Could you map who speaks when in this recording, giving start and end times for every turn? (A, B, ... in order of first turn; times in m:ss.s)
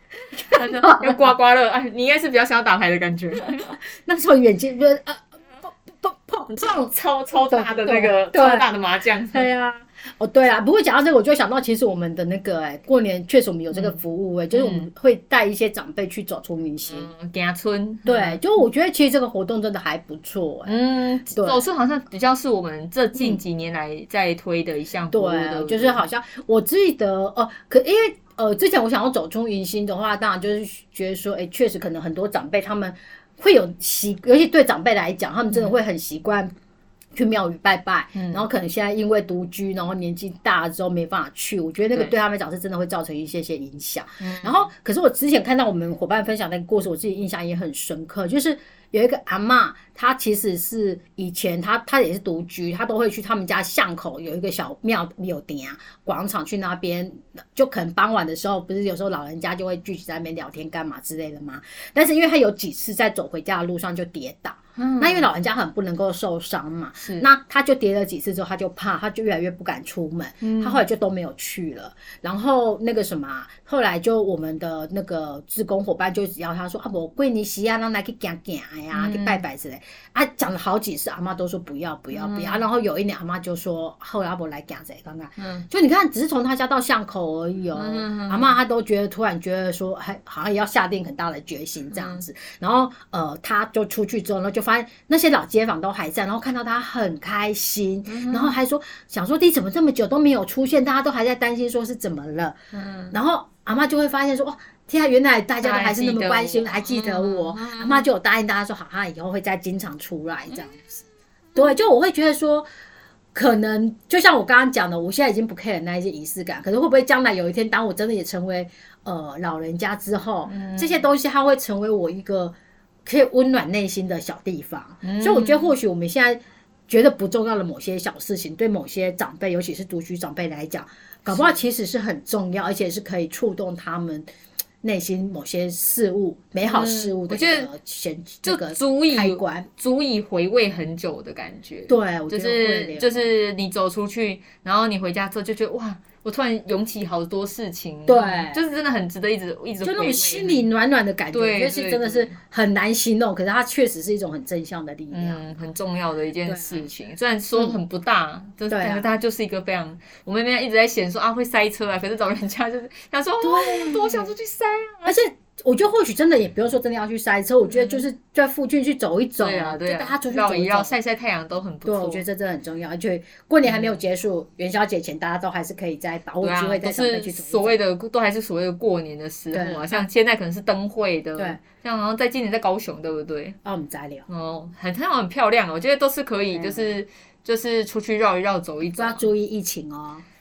0:00.4-0:01.2 A
0:00.4-0:03.7 B
0:03.5-0:06.9 A
0:06.9-0:09.5 B
0:07.5-0:08.7 A
0:09.3-0:17.1 A
0:13.7-0:14.0 B
0:14.5-0:14.9 B
0:16.9-0:18.4 B
0:18.0-0:21.6 A
0:20.6-0:26.0 B
0:23.1-0:23.4 A
0:25.1-0:36.5 A
0:37.1-1:42.6 A
0:38.1-0:38.5 B
0:44.2-0:44.7 B
1:04.8-1:05.3 B
1:07.0-1:07.3 B
1:10.4-1:10.8 B
1:18.9-1:19.4 B
1:22.1-1:22.6 B
1:25.4-1:25.6 B
1:27.7-1:28.5 B
1:31.9-1:32.2 B
1:38.1-1:38.5 B
1:42.7-1:43.2 B
1:43.1-1:51.0 A
1:45.6-1:48.0 B
1:51.5-1:52.7 A
1:53.3-2:14.3 A
2:00.5-2:01.0 B
2:05.0-2:05.7 B
2:11.2-2:11.6 B
2:14.8-2:19.7 A
2:16.7-2:17.7 B
2:18.4-2:30.7 B
2:21.9-2:23.3 A
2:28.1-2:28.6 A
2:29.8-2:35.5 A
2:31.3-2:32.4 B
2:35.1-2:45.2 B
2:36.4-2:36.9 A
2:38.7-2:39.0 A
2:43.4-2:44.3 A
2:45.0-2:50.9 A
2:47.7-2:48.0 B
2:49.4-2:52.2 B
2:51.8-2:57.8 A
2:53.6-2:54.0 B
2:56.4-3:03.6 B
2:59.5-3:00.1 A
3:03.6-3:04.3 A
3:04.3-3:09.2 B
3:06.5-3:06.9 A
3:08.8-3:10.2 A